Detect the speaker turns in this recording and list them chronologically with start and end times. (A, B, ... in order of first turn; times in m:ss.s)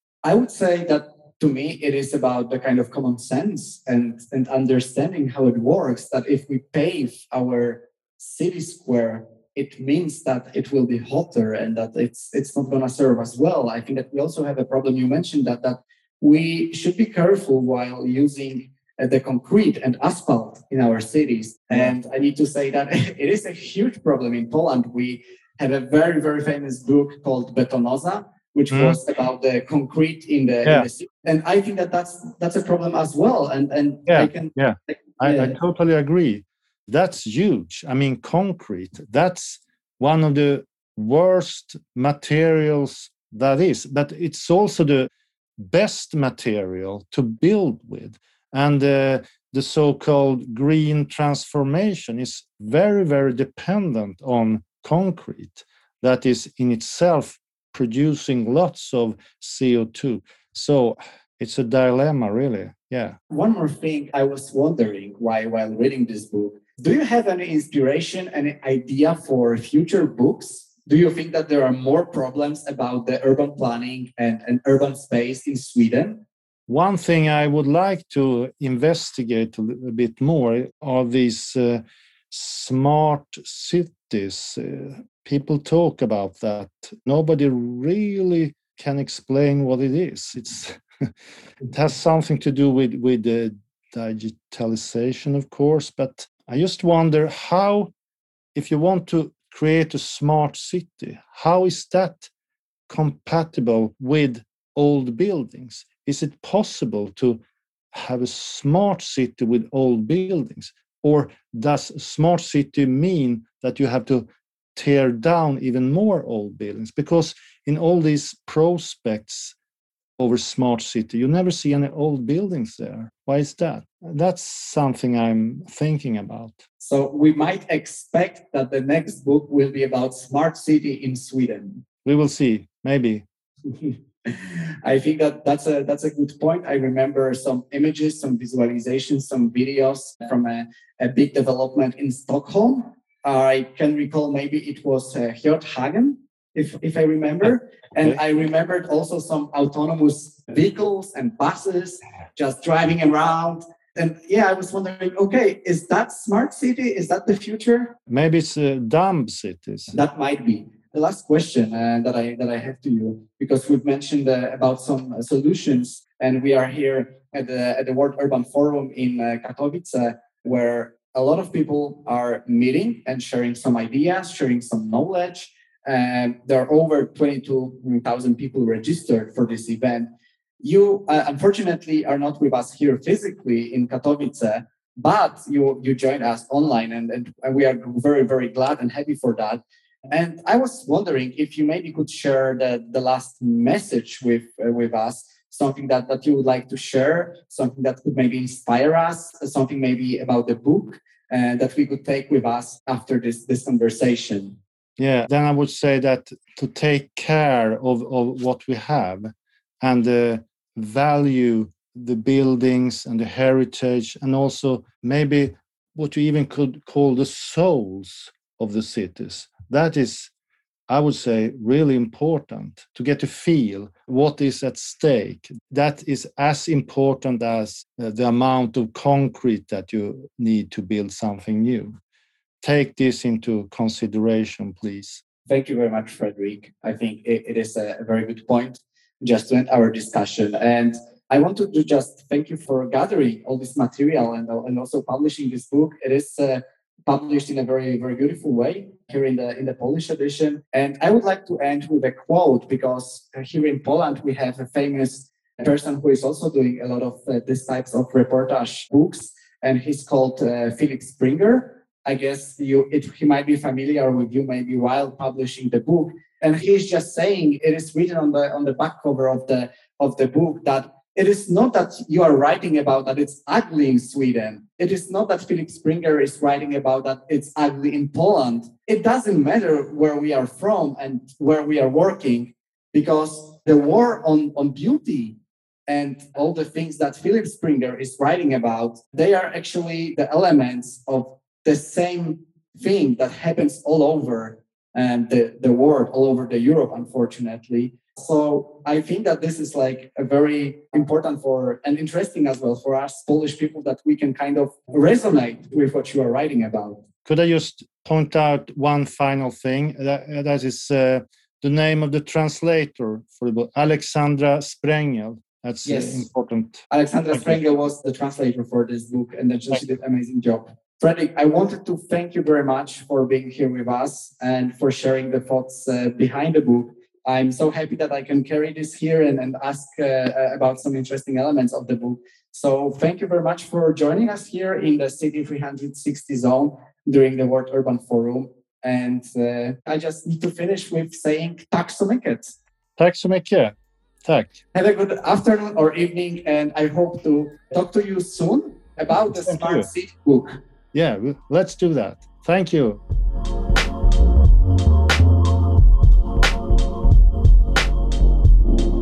0:00.2-0:35.6 A
0:28.7-0:29.0 B
0:34.1-1:03.2 B
1:03.3-1:16.2 A
1:16.7-1:30.8 B
1:31.6-1:37.9 B
1:38.5-1:42.3 B
1:42.9-1:47.4 B
1:47.9-1:59.5 B
2:00.2-2:06.6 B
2:06.8-2:11.8 A
2:12.0-2:13.2 B
2:13.7-2:38.0 A
2:38.1-2:40.0 B
2:39.9-3:00.1 A
3:00.6-3:24.6 A
3:25.0-3:29.3 B
3:29.8-3:40.3 B
3:40.9-3:52.0 B
3:52.6-3:55.2 B
3:55.5-5:07.0 A
5:07.2-5:17.6 B
5:15.8-5:16.2 A
5:16.9-5:42.6 A
5:43.0-5:44.6 B
5:44.7-5:50.6 A
5:49.3-5:49.9 B
5:50.9-5:53.0 B